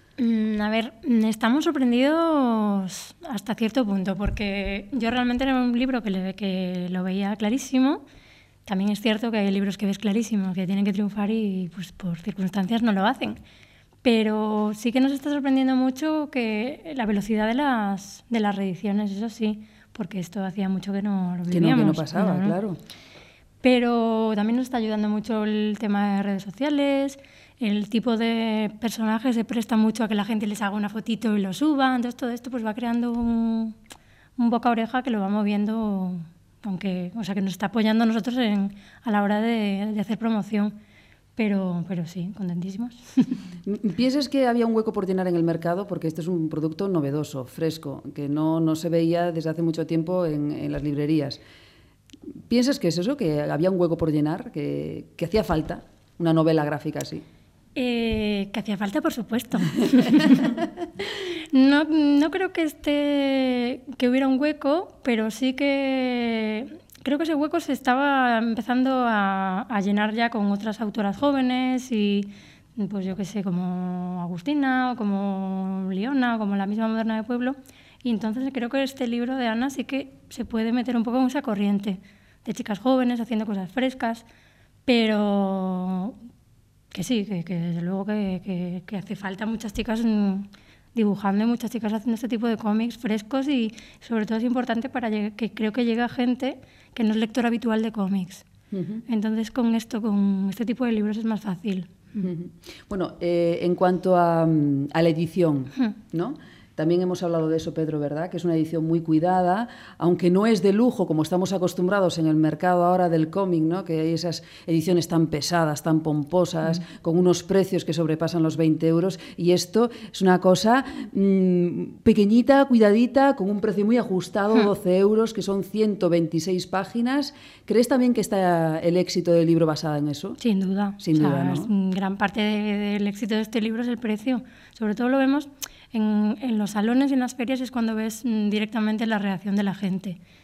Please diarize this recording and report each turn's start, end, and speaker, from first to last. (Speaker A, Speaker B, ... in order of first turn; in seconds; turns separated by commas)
Speaker A: 0.2-8.0, Speaker A: 8.7-13.4, Speaker A: 14.0-22.6, Speaker B: 21.5-22.8, Speaker A: 23.6-33.8, Speaker A: 34.4-40.8, Speaker A: 41.4-43.4, Speaker B: 43.7-51.4, Speaker B: 52.5-57.2, Speaker A: 57.7-60.5, Speaker A: 61.5-84.2, Speaker A: 84.8-86.2, Speaker A: 86.9-98.4, Speaker B: 98.7-99.0, Speaker A: 99.1-102.3, Speaker B: 102.2-130.4, Speaker A: 130.4-140.2, Speaker B: 131.0-131.7